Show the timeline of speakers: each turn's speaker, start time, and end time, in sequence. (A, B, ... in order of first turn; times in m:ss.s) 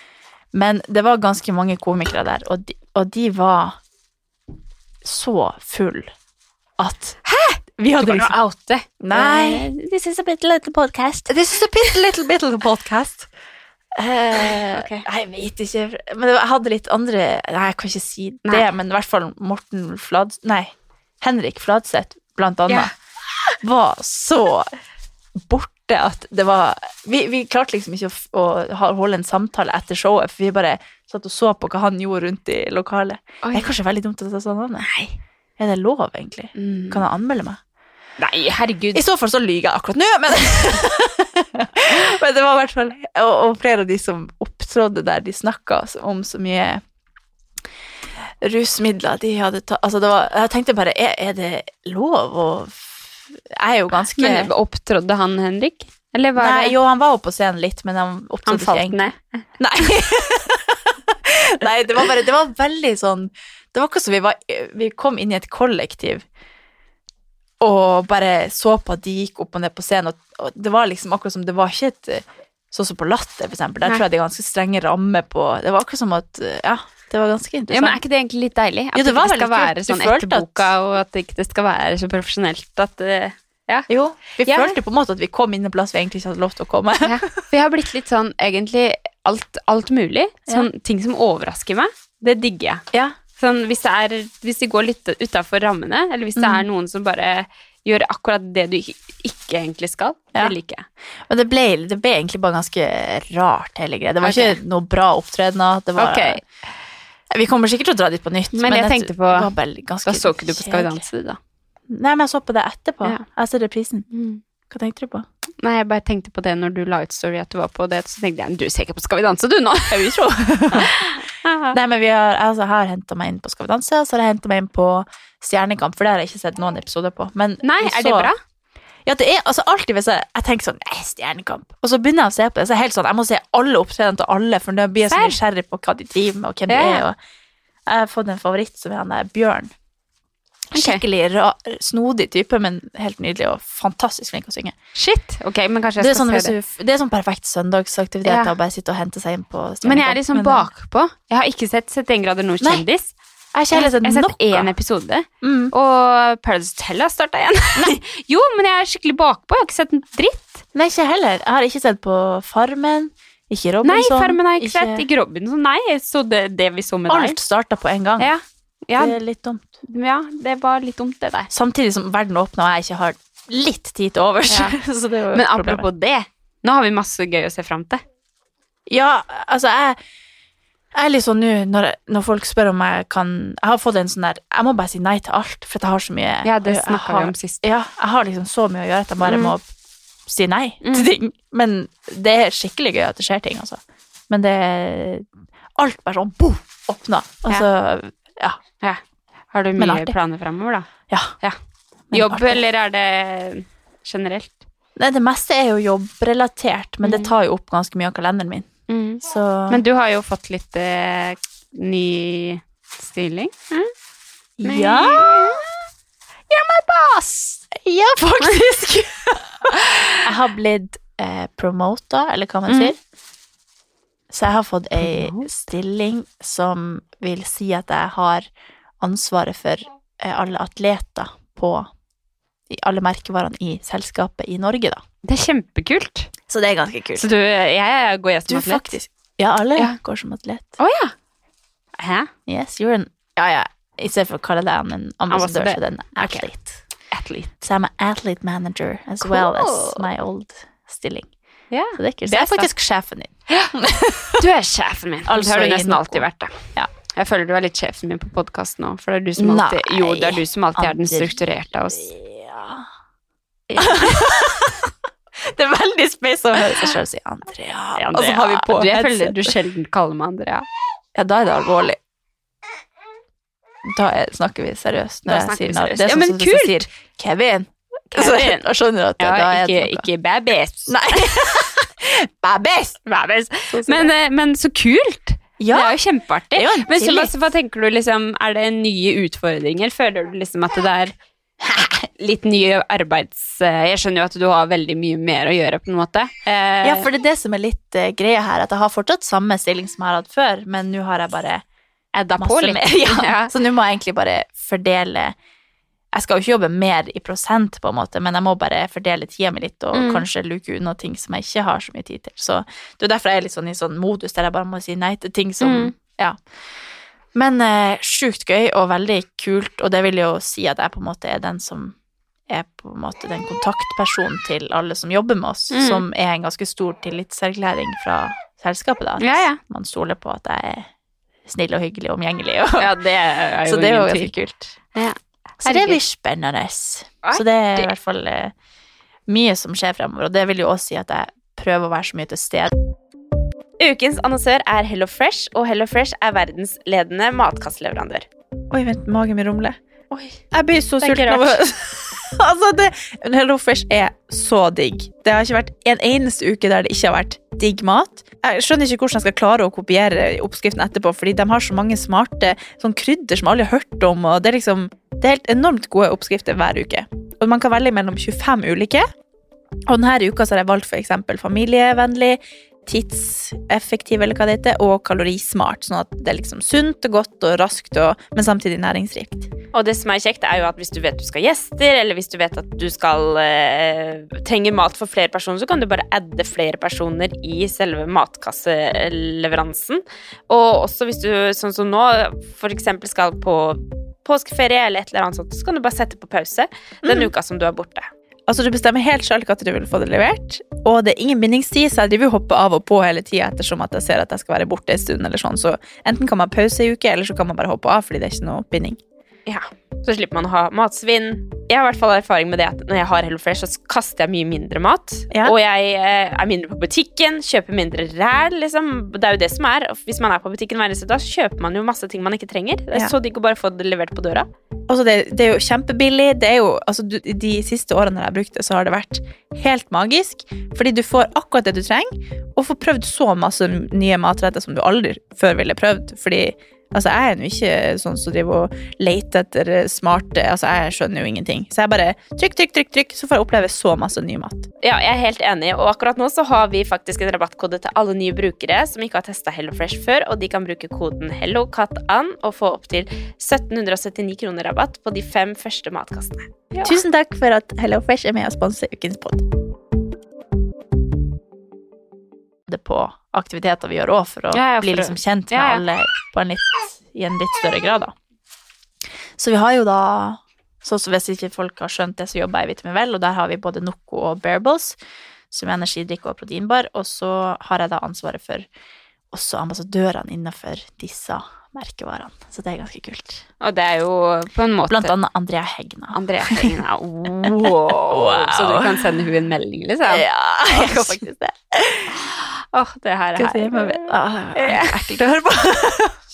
0:00.5-0:03.8 A
0:05.0-0:06.1 A
0:06.8-0:07.2 A
0:07.3-0:09.7 B
0:07.8-0:08.4 A
0:09.0-0:13.3 A
0:14.0-0:22.9 A
0:14.7-0:15.0 B
0:23.6-0:24.7 A
0:25.4-0:34.9 A
0:33.4-0:33.7 B
0:34.8-0:35.2 B
0:35.6-0:37.6 A
0:36.6-0:37.0 B
0:38.2-0:39.0 B
0:38.9-0:46.8 A
0:48.4-0:54.5 A
0:54.2-0:56.8 B
0:56.4-1:06.2 A
0:58.5-0:59.4 B
1:07.6-1:18.0 A
1:17.7-1:23.9 B
1:18.9-1:20.7 A
1:23.9-1:27.3 A
1:24.4-1:24.8 B
1:27.0-1:32.8 B
1:33.4-1:40.8 B
1:36.4-1:36.6 A
1:41.3-1:46.4 A
1:44.2-1:44.6 B
1:46.0-1:46.4 B
1:47.3-1:51.0 A
1:48.5-1:49.5 B
1:50.1-1:51.4 B
1:51.9-1:54.1 A
1:54.1-1:54.4 B
1:54.7-1:55.3 A
1:55.6-2:00.2 B
1:59.9-2:00.9 A
2:00.7-2:01.8 B
2:01.7-2:08.3 A
2:07.6-2:08.4 B
2:09.0-2:17.2 A
2:15.1-2:15.4 B
2:16.7-2:17.0 B
2:17.9-2:19.7 A
2:20.7-2:24.8 A
2:20.7-2:21.0 B
2:25.0-2:26.6 B
2:26.0-2:30.7 A
2:28.2-2:28.5 B
2:29.8-2:33.1 B
2:33.5-2:34.7 A
2:33.7-2:40.6 B
2:35.4-2:35.7 A
2:40.8-2:45.0 A
2:43.8-2:47.4 B
2:47.1-2:48.3 A
2:48.2-2:49.2 B
2:49.0-2:49.7 A
2:49.9-2:51.5 B
2:51.5-2:55.9 A
2:54.5-2:54.8 B
2:55.3-2:58.0 B
2:58.9-3:00.0 A
3:00.9-3:09.7 A
3:06.4-3:07.6 B
3:09.2-3:09.6 B
3:10.3-3:18.6 A
3:10.8-3:11.1 B
3:19.5-3:20.9 B
3:19.8-3:20.2 A
3:22.1-3:22.6 A
3:22.1-3:24.6 B
3:25.0-3:28.7 A
3:27.0-3:27.3 B
3:28.9-3:33.9 B
3:29.2-3:29.8 A
3:34.6-3:35.7 A
3:34.6-3:35.6 B
3:36.5-3:37.6 B
3:37.6-3:43.0 A
3:39.7-3:40.2 B
3:42.7-3:42.9 B
3:44.3-3:48.5 A
3:45.0-3:45.5 B
3:49.0-3:51.9 A
3:52.7-3:55.0 A
3:55.2-3:56.3 B
3:56.5-3:57.3 A
3:57.2-3:59.0 B
3:58.5-4:00.8 A
4:00.8-4:01.1 B
4:02.0-4:02.3 B
4:02.5-4:06.8 A
4:05.3-4:06.5 B
4:07.1-4:07.6 B
4:07.6-4:11.3 A
4:09.2-4:10.0 B
4:11.7-4:12.7 B
4:12.0-4:14.4 A
4:14.4-4:16.6 B
4:15.3-4:16.9 A
4:17.1-4:22.1 B
4:19.4-4:21.4 A
4:21.9-4:22.8 A
4:23.7-4:24.3 B
4:23.8-4:24.9 A
4:25.4-4:29.6 A
4:28.0-4:30.7 B
4:31.2-4:32.0 A
4:33.8-4:40.1 A
4:35.3-4:36.8 B
4:38.1-4:38.7 B
4:39.2-4:41.4 B
4:40.9-4:43.0 A
4:43.1-4:51.2 B
4:43.7-4:44.1 A
4:45.6-4:46.0 A
4:46.5-4:47.3 A
4:51.6-4:51.9 A
4:52.1-4:57.1 B
4:56.8-5:01.6 A
5:02.1-5:03.5 B
5:02.4-5:05.4 A
5:06.1-5:16.4 A
5:09.9-5:10.3 B
5:15.6-5:15.9 B
5:17.3-5:22.0 A
5:22.5-5:30.9 A
5:25.7-5:26.0 B
5:29.2-5:29.6 B
5:31.5-5:33.0 A
5:32.8-5:34.3 B
5:33.6-5:34.8 A
5:35.0-5:36.0 B
5:35.6-5:38.5 A
5:37.2-5:37.9 B
5:39.3-5:42.8 A
5:43.8-5:48.3 B
5:48.7-5:49.8 A
5:50.1-5:50.4 B
5:50.5-6:09.0 A
5:51.0-5:51.6 B
6:09.9-6:19.5 A
6:19.7-6:38.1 B
6:37.0-6:37.3 A
6:38.5-6:49.0 A
6:49.5-7:04.5 B
7:04.9-7:24.7 A
7:24.8-7:37.0 B
7:36.8-7:39.5 A
7:42.7-7:48.2 A
7:44.5-7:45.8 B
7:49.4-7:55.0 A
7:55.5-7:58.7 A
7:59.3-8:03.4 A
8:03.6-8:05.1 B
8:04.9-8:06.7 A
8:06.1-8:11.2 B
8:07.3-8:09.3 A
8:10.1-8:12.2 A
8:12.1-8:15.1 B
8:13.4-8:16.2 A